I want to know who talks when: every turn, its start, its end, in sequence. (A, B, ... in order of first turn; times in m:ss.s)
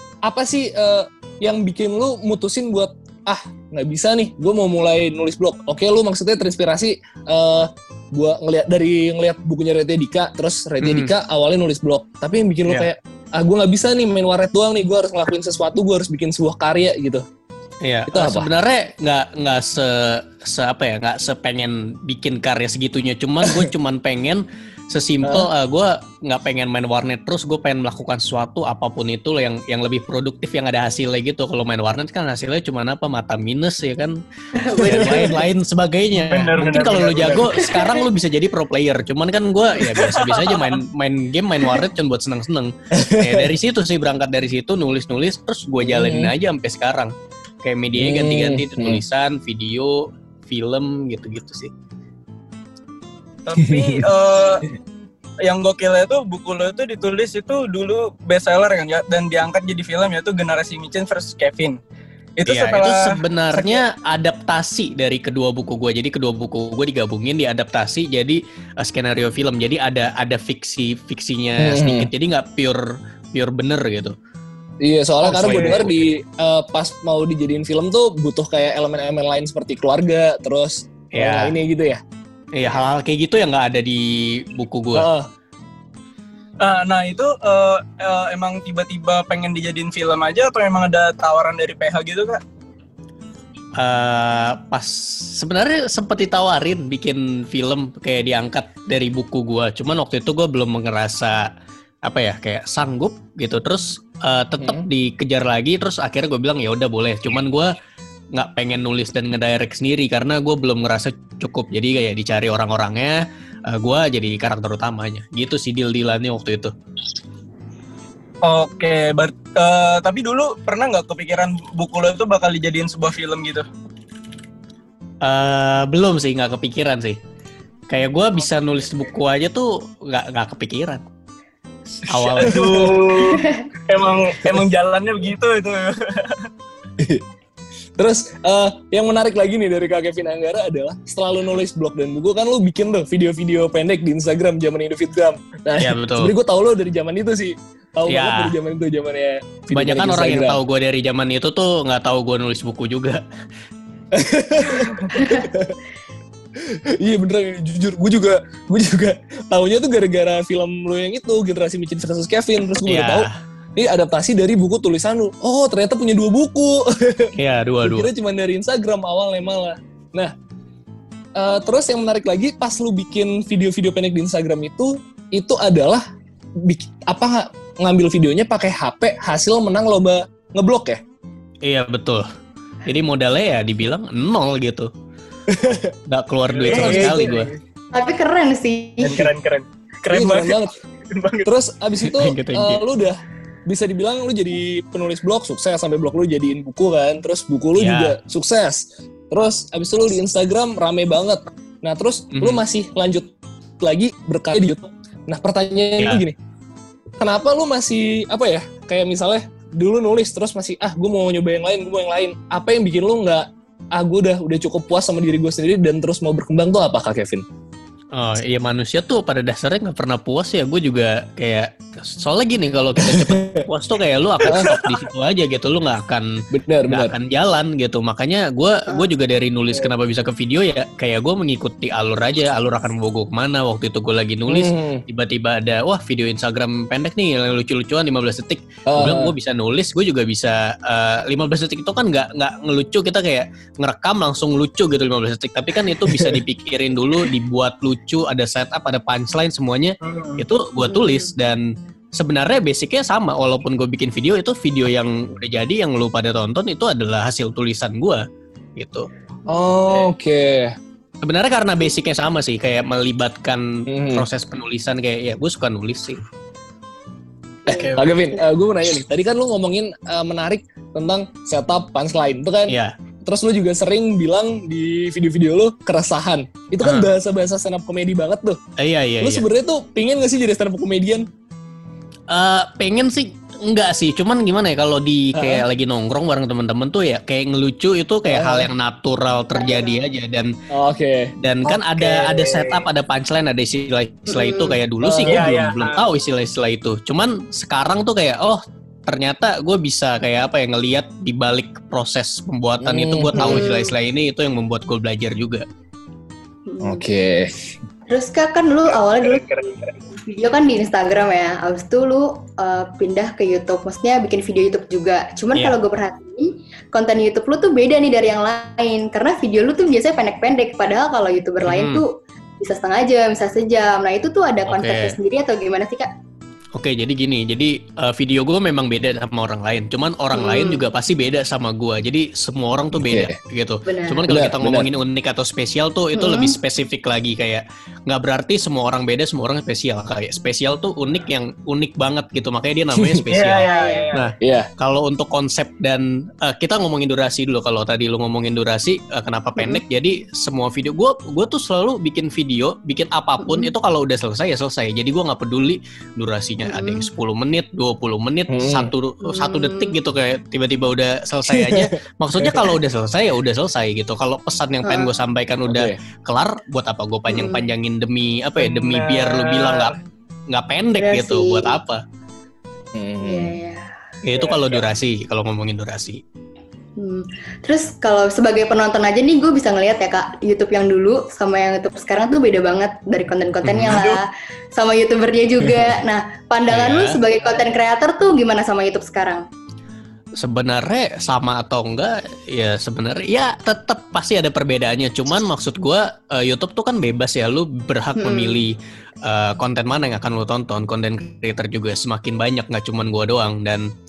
0:00.2-0:17.2 A
0:10.8-0:11.1 B
0:17.8-0:34.2 B
0:18.1-0:18.5 A
0:23.4-0:23.7 A
0:25.2-0:25.5 A
0:34.5-0:35.4 C
0:34.7-0:51.7 B
0:34.8-0:35.3 A
0:36.2-0:37.6 D
0:37.4-0:38.0 C
0:39.8-0:40.8 D
0:42.9-0:43.5 A
0:45.8-0:46.3 A
0:48.0-0:49.0 A
0:53.4-0:54.6 D
0:53.6-0:54.0 A
0:55.4-1:01.8 D
1:02.4-1:03.8 D
1:02.4-1:14.2 B
1:11.6-1:12.1 A
1:14.8-1:22.0 A
1:15.2-1:16.0 B
1:15.4-1:15.8 D
1:21.1-1:21.5 B
1:22.5-1:25.1 B
1:24.9-1:25.3 A
1:26.6-1:32.4 D
1:33.8-1:41.5 B
1:42.0-1:47.7 B
1:44.6-1:44.8 A
1:48.3-1:56.7 B
1:58.4-2:03.6 D
2:05.2-2:07.2 B
2:07.9-2:11.0 B
2:12.0-2:12.9 B
2:12.2-2:16.5 D
2:12.3-2:13.0 A
2:17.0-2:17.2 A
2:18.0-2:30.6 A
2:25.8-2:26.3 B
2:28.1-2:28.5 B
2:29.7-2:33.2 B
2:34.1-2:35.8 A
2:35.1-2:35.4 C
2:36.6-2:50.3 A
2:42.8-2:43.3 B
2:47.4-2:48.1 B
2:51.4-2:56.0 A
2:56.6-3:01.0 A
3:01.6-3:02.3 B
3:02.8-3:04.9 B
3:05.5-3:05.9 A
3:06.1-3:07.5 B
3:06.5-3:07.5 D
3:06.7-3:07.3 A
3:07.9-3:09.2 C
3:09.0-3:11.5 D
3:10.1-3:10.7 A
3:11.4-3:26.4 A
3:12.0-3:12.8 B
3:17.8-3:18.1 B
3:22.3-3:22.6 B
3:27.2-3:37.4 A
3:38.1-3:46.3 B
3:43.0-3:43.6 A
3:44.4-3:45.0 D
3:44.4-3:44.7 A
3:46.5-3:47.1 A
3:46.9-4:11.6 B
3:54.5-3:55.0 A
3:58.9-3:59.3 A
4:05.9-4:06.4 A
4:10.0-4:10.4 D
4:10.8-4:11.3 C
4:12.2-4:18.2 B
4:18.8-4:19.1 B
4:19.5-4:20.7 A
4:21.2-4:26.2 B
4:23.9-4:24.3 A
4:27.6-4:28.0 C
4:27.7-4:28.1 D
4:27.7-4:38.6 A
4:32.7-4:32.9 B
4:36.8-4:37.1 B
4:38.8-4:39.4 B
4:39.2-4:41.3 A
4:42.3-4:50.5 B
4:45.3-4:45.6 A
4:48.3-4:48.7 A
4:49.5-4:50.0 C
4:50.7-4:51.3 A
4:51.4-5:05.6 B
4:51.9-4:52.4 A
4:54.3-4:54.8 C
4:55.0-4:55.4 A
4:55.3-4:56.0 D
5:02.8-5:03.6 A
5:03.4-5:03.9 C
5:06.7-5:07.0 C
5:06.8-5:07.7 A
5:08.1-5:09.4 C
5:08.9-5:10.0 D
5:10.2-5:26.1 C
5:21.6-5:22.0 B
5:24.7-5:25.2 B
5:26.7-6:09.9 B
5:30.3-5:30.8 C
5:32.9-5:33.4 A
5:33.8-5:34.2 C
5:34.3-5:34.9 A
5:36.1-5:36.6 C
5:43.0-5:43.3 A
5:43.3-5:44.2 D
5:43.6-5:44.1 C
5:44.4-5:44.7 A
5:53.4-5:53.7 C
5:56.6-5:57.1 C
5:58.5-5:58.9 A
5:59.2-5:59.9 C
6:01.4-6:02.7 A
6:04.8-6:05.1 C
6:05.6-6:06.0 A
6:07.3-6:07.7 C
6:08.6-6:10.0 D
6:10.5-6:12.0 B
6:11.0-6:11.8 C
6:12.9-6:13.6 A
6:13.2-6:13.9 C
6:14.2-6:16.2 B
6:14.3-6:14.8 D
6:17.0-6:29.5 C
6:23.6-6:24.0 B
6:23.9-6:24.2 D
6:26.7-6:27.2 B
6:30.4-6:43.9 B
6:38.2-6:38.6 C